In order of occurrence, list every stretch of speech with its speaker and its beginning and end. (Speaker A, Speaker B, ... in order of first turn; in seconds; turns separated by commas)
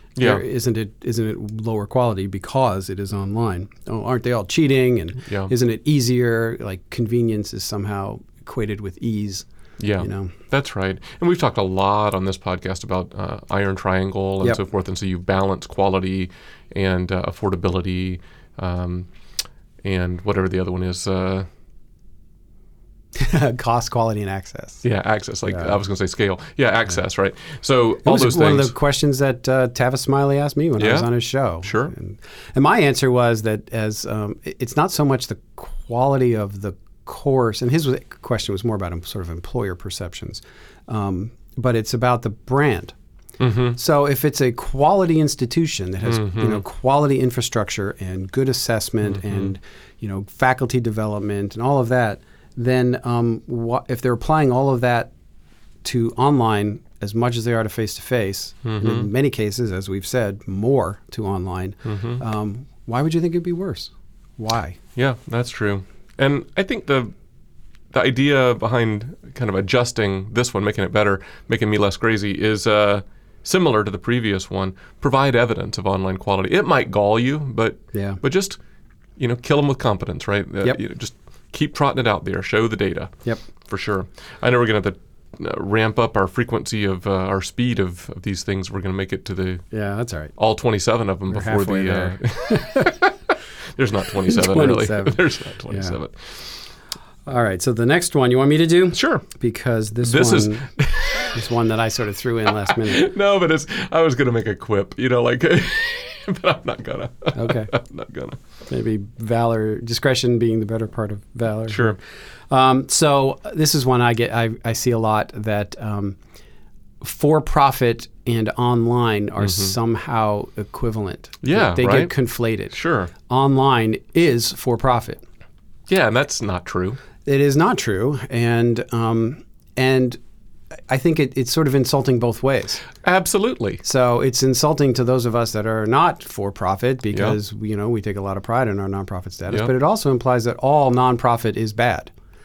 Speaker A: 0.2-0.4, Speaker B: 0.2-9.5, Speaker A: 5.3-5.5, Speaker A: 9.8-19.1, Speaker B: 10.0-10.3, Speaker A: 19.8-21.5, Speaker B: 23.1-24.8, Speaker A: 24.8-28.7, Speaker B: 25.5-25.8, Speaker B: 28.1-43.0, Speaker A: 30.8-31.1, Speaker A: 31.6-31.9, Speaker A: 43.4-43.8, Speaker B: 43.8-55.1, Speaker A: 46.1-46.6, Speaker A: 49.1-49.5, Speaker B: 55.8-64.8, Speaker A: 58.6-59.1, Speaker A: 61.9-62.2, Speaker A: 65.0-67.1, Speaker A: 67.9-78.6, Speaker B: 77.9-78.2, Speaker A: 79.2-83.2, Speaker A: 83.7-89.7, Speaker B: 89.7-90.3, Speaker A: 90.4-96.5, Speaker B: 91.3-93.0, Speaker B: 94.2-96.0, Speaker B: 97.3-100.7, Speaker A: 98.9-99.2, Speaker A: 100.0-101.4, Speaker B: 101.3-103.1, Speaker A: 102.7-108.4, Speaker B: 107.3-107.7, Speaker B: 108.7-112.0, Speaker A: 111.7-112.0, Speaker B: 112.5-116.2, Speaker B: 117.0-122.8, Speaker A: 119.4-119.8, Speaker A: 121.4-122.1, Speaker A: 122.7-123.1, Speaker B: 123.3-125.2, Speaker A: 125.9-127.0, Speaker B: 127.2-130.2, Speaker B: 130.9-132.8, Speaker A: 133.0-133.8, Speaker B: 133.8-142.1, Speaker A: 137.1-137.4